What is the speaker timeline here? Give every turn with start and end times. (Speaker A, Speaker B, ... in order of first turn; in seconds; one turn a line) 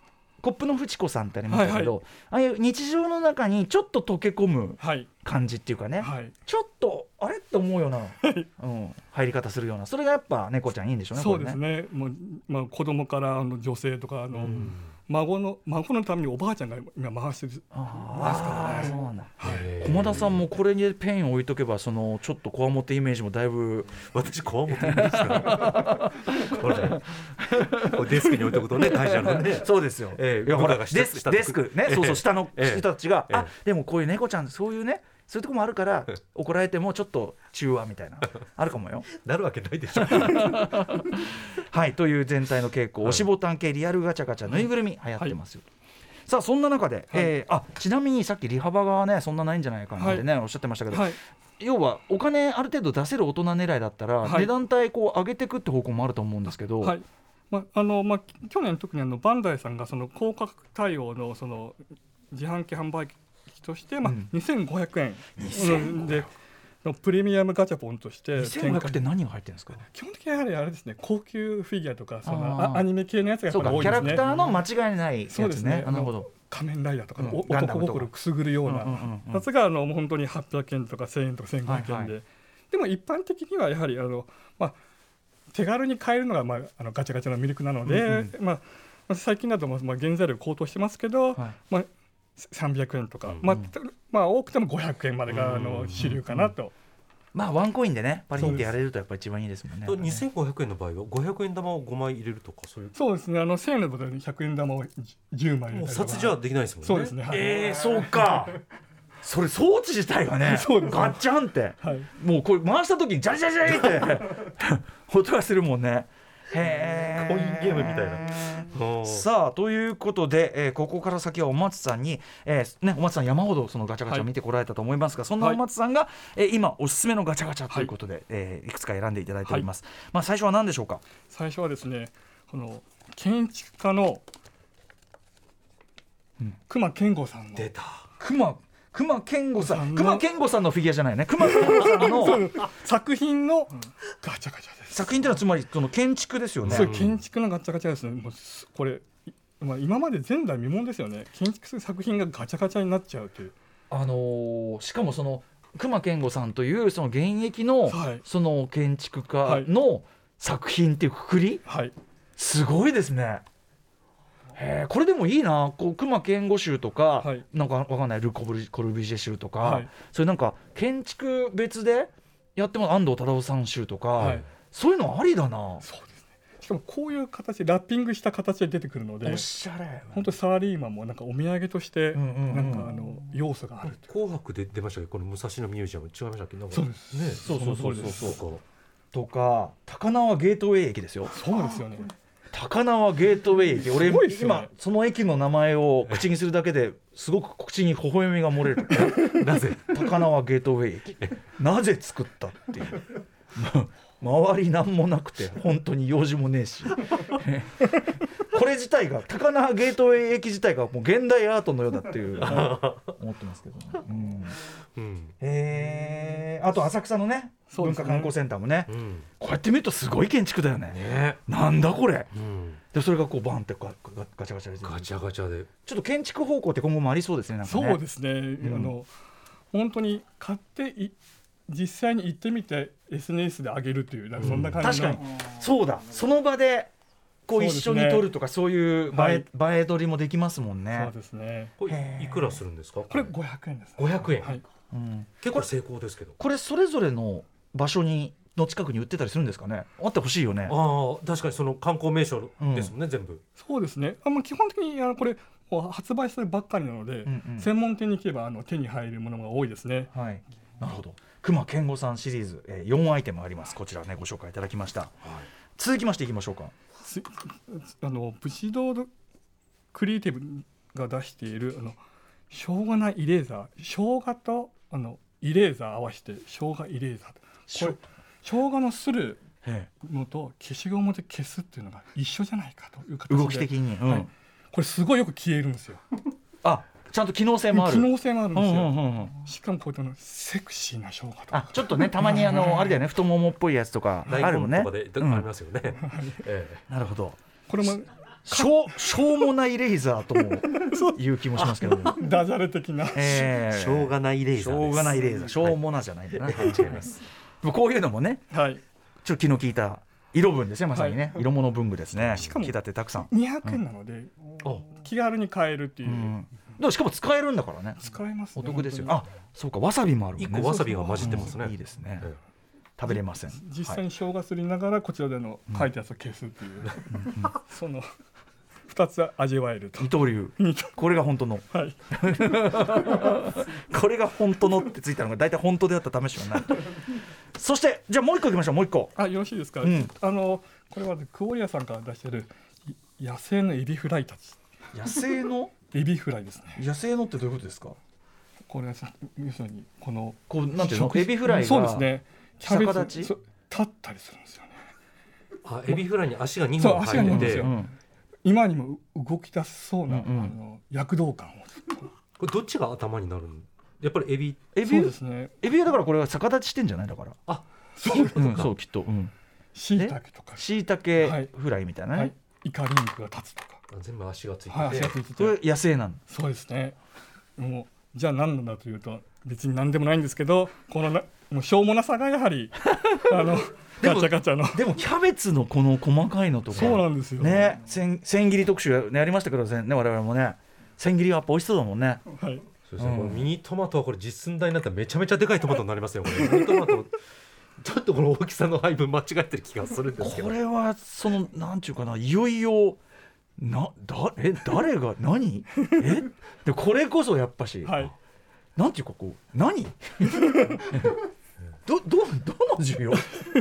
Speaker A: 0.4-11.6
Speaker B: 1.5-2.0
Speaker B: 4.8-5.1
Speaker B: 6.0-6.3
Speaker B: 8.2-8.5
Speaker B: 11.1-19.7
Speaker C: 14.3-14.9
Speaker A: 17.7-24.0
Speaker C: 19.4-20.4
Speaker C: 24.0-27.1
Speaker A: 24.7-39.1
Speaker C: 27.7-33.5
Speaker C: 39.2-41.0
Speaker A: 40.0-45.6
Speaker A: 46.3-57.0
Speaker B: 50.0-50.3
Speaker B: 50.9-51.2
Speaker B: 54.2-54.5
Speaker B: 56.8-66.3
Speaker A: 64.0-64.3
Speaker A: 65.4-66.3
Speaker B: 66.8-69.1
Speaker A: 68.3-69.8
Speaker B: 69.8-74.3
Speaker A: 72.2-72.9
Speaker A: 73.5-76.3
Speaker C: 73.6-74.3
Speaker B: 75.3-84.8
Speaker A: 77.2-78.1
Speaker A: 78.6-79.5
Speaker A: 81.6-82.2
Speaker B: 85.5-96.7
Speaker A: 87.8-88.3
Speaker C: 93.2-93.5
Speaker C: 95.3-96.2
Speaker A: 96.0-96.5
Speaker A: 97.3-100.2
Speaker C: 98.3-98.7
Speaker B: 98.4-98.7
Speaker C: 99.8-103.0
Speaker B: 102.9-107.5
Speaker C: 105.7-107.8
Speaker A: 107.3-108.6
Speaker A: 109.2-131.0
Speaker B: 110.4-111.2
Speaker B: 111.8-112.1
Speaker C: 116.8-119.3
Speaker B: 131.3-134.2
Speaker B: 136.7-137.7
Speaker C: 137.5-138.1
Speaker A: 138.2-142.5
Speaker B: 139.6-140.3
Speaker B: 141.4-145.1
Speaker A: 144.9-146.9
Speaker C: 146.6-147.2
Speaker B: 146.7-153.5
Speaker A: 153.9-161.6
Speaker B: 157.9-158.2
Speaker B: 159.4-159.7
Speaker B: 161.7-161.9
Speaker A: 162.4-163.4
Speaker A: 164.5-175.8
Speaker B: 169.6-169.9
Speaker B: 174.2-174.4
Speaker B: 175.8-179.5
Speaker A: 179.2-180.3
Speaker B: 180.1-184.1
Speaker A: 182.1-183.0
Speaker C: 183.8-188.6
Speaker B: 186.7-188.4
Speaker A: 187.4-188.4
Speaker A: 189.1-191.4
Speaker B: 191.3-192.1
Speaker A: 192.5-199.3
Speaker B: 193.8-194.7
Speaker C: 198.9-200.0
Speaker A: 199.9-214.6
Speaker C: 212.4-213.1
Speaker C: 214.9-215.3
Speaker A: 215.4-222.3
Speaker B: 217.7-218.3
Speaker C: 218.9-219.3
Speaker C: 220.9-221.4
Speaker C: 222.3-222.8
Speaker A: 222.9-225.1
Speaker C: 224.8-225.7
Speaker A: 225.8-228.0
Speaker B: 227.6-229.1
Speaker A: 228.6-228.9
Speaker B: 229.7-231.1
Speaker B: 231.7-235.2
Speaker C: 234.4-234.9
Speaker A: 234.8-236.9
Speaker A: 237.4-241.1
Speaker B: 237.5-238.3
Speaker B: 239.1-239.4
Speaker B: 240.9-241.7
Speaker C: 241.8-243.3
Speaker A: 241.8-242.6
Speaker B: 243.1-244.6
Speaker C: 244.0-244.6
Speaker A: 244.9-245.7
Speaker C: 245.4-246.3
Speaker A: 246.4-250.8
Speaker C: 250.7-253.4
Speaker A: 252.6-252.9
Speaker B: 253.6-260.1
Speaker A: 257.2-257.7
Speaker A: 260.1-266.7
Speaker B: 267.0-269.1
Speaker B: 269.9-272.0
Speaker B: 272.5-279.4
Speaker A: 277.7-278.0
Speaker A: 279.6-279.9
Speaker B: 280.0-286.0
Speaker A: 283.3-284.3
Speaker A: 286.6-289.3
Speaker B: 287.7-293.0
Speaker A: 291.5-295.5
Speaker C: 294.3-296.8
Speaker B: 296.0-296.4
Speaker A: 296.9-297.4
Speaker B: 297.7-299.2
Speaker A: 298.4-302.3
Speaker B: 300.6-303.4
Speaker A: 303.1-308.5
Speaker C: 303.2-305.8
Speaker C: 306.4-307.1
Speaker B: 308.5-308.8
Speaker A: 309.2-313.8
Speaker B: 310.9-311.4
Speaker B: 312.3-312.7
Speaker B: 313.3-314.3
Speaker B: 314.9-316.4
Speaker A: 316.0-318.0
Speaker B: 318.0-319.2
Speaker A: 318.6-322.3
Speaker C: 320.4-322.4
Speaker B: 320.6-321.5
Speaker A: 323.0-324.0
Speaker B: 323.1-328.1
Speaker A: 327.1-327.5
Speaker B: 328.9-331.0
Speaker A: 330.0-339.1
Speaker B: 331.7-332.0
Speaker B: 339.1-344.6
Speaker A: 339.8-340.1
Speaker A: 344.9-345.7
Speaker B: 345.9-346.8
Speaker A: 346.8-348.0
Speaker B: 348.7-354.8
Speaker A: 350.5-352.1
Speaker A: 352.6-353.3
Speaker C: 355.6-357.7
Speaker B: 356.8-357.8
Speaker A: 357.1-357.9
Speaker B: 358.4-362.1
Speaker A: 360.1-360.5
Speaker C: 362.4-364.6
Speaker A: 364.7-367.4
Speaker B: 364.8-365.5
Speaker C: 367.5-368.7
Speaker B: 368.0-368.6
Speaker A: 368.1-369.3
Speaker B: 369.7-370.7
Speaker A: 369.9-372.3
Speaker B: 371.2-371.5
Speaker B: 372.1-373.8
Speaker C: 373.9-375.1
Speaker B: 374.7-375.6
Speaker A: 374.9-376.2
Speaker B: 376.3-377.0
Speaker B: 377.6-384.9
Speaker A: 383.0-392.2
Speaker B: 386.7-387.8
Speaker B: 392.3-392.6
Speaker C: 392.9-397.2
Speaker A: 393.0-393.5
Speaker C: 397.8-400.5
Speaker A: 400.2-403.0
Speaker A: 403.6-408.1
Speaker B: 407.8-408.1
Speaker A: 408.8-411.1
Speaker A: 411.9-413.3